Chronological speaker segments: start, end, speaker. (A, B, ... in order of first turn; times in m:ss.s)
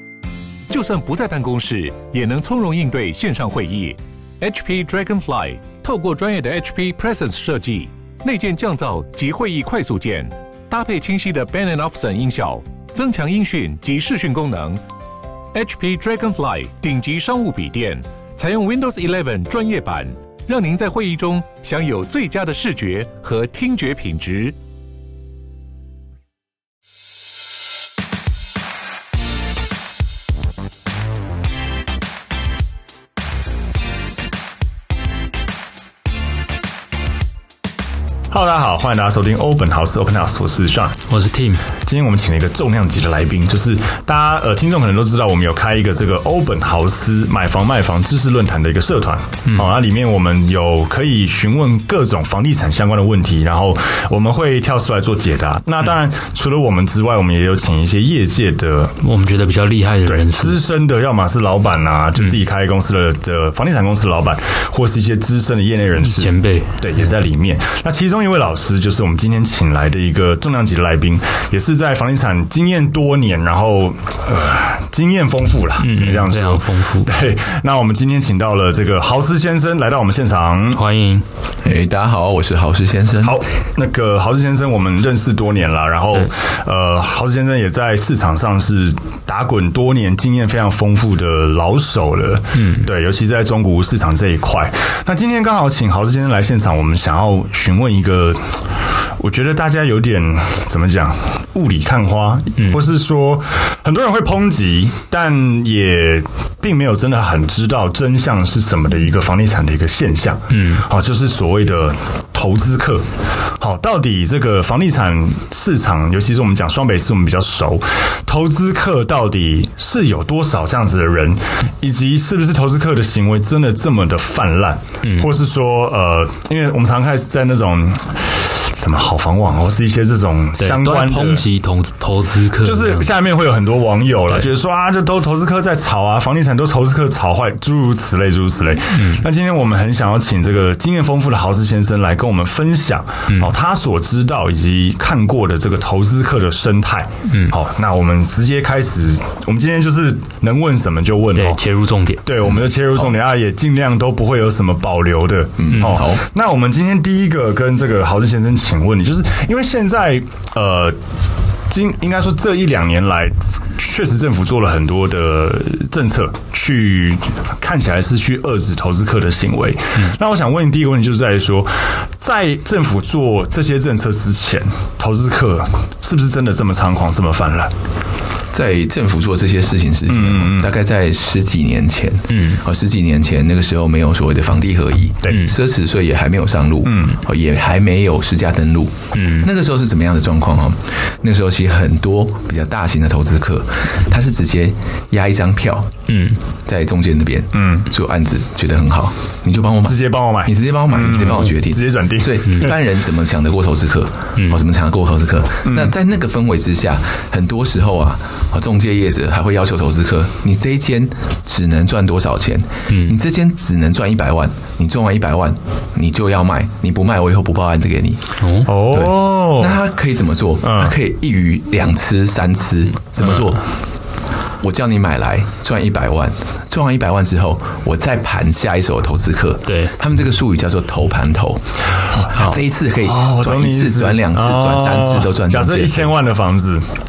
0:00.7-0:14.8 A
0:15.5-0:24.6 A
0:38.3-0:41.0 B
0:41.1-0:41.6 C
0:41.8-0:59.0 B
0:49.5-0:49.7 C
0:59.0-1:00.6 C
1:00.0-1:20.8 B
1:06.0-1:06.8 C
1:15.8-1:17.1 C
1:20.7-1:21.2 C
1:21.6-1:23.4 D
1:23.2-1:38.6 B
1:32.6-1:32.9 C
1:39.2-1:53.1 B
1:50.5-1:50.8 C
1:53.6-2:11.4 B
2:05.0-2:05.3 C
2:10.6-2:13.1 C
2:12.6-2:31.6 B
2:18.9-2:19.2 C
2:27.3-2:27.5 C
2:31.3-2:32.3 C
2:32.2-2:41.0 B
2:35.6-2:36.2 D
2:41.7-2:57.7 B
2:58.5-3:15.9 D
3:00.1-3:00.7 B
3:02.3-3:02.6 C
3:05.3-3:05.5 C
3:06.8-3:07.2 B
3:09.1-3:09.5 C
3:16.1-3:16.4 C
3:16.6-3:38.2 D
3:17.5-3:17.8 B
3:19.8-3:22.8 B
3:24.4-3:24.6 C
3:25.6-3:25.9 B
3:32.9-3:33.2 C
3:38.4-3:38.7 C
3:38.6-3:39.8 B
3:38.8-3:43.7 D
3:40.6-3:41.0 B
3:44.6-3:51.6 D
3:49.6-3:50.0 C
3:52.2-3:56.1 D
3:53.0-3:56.8 B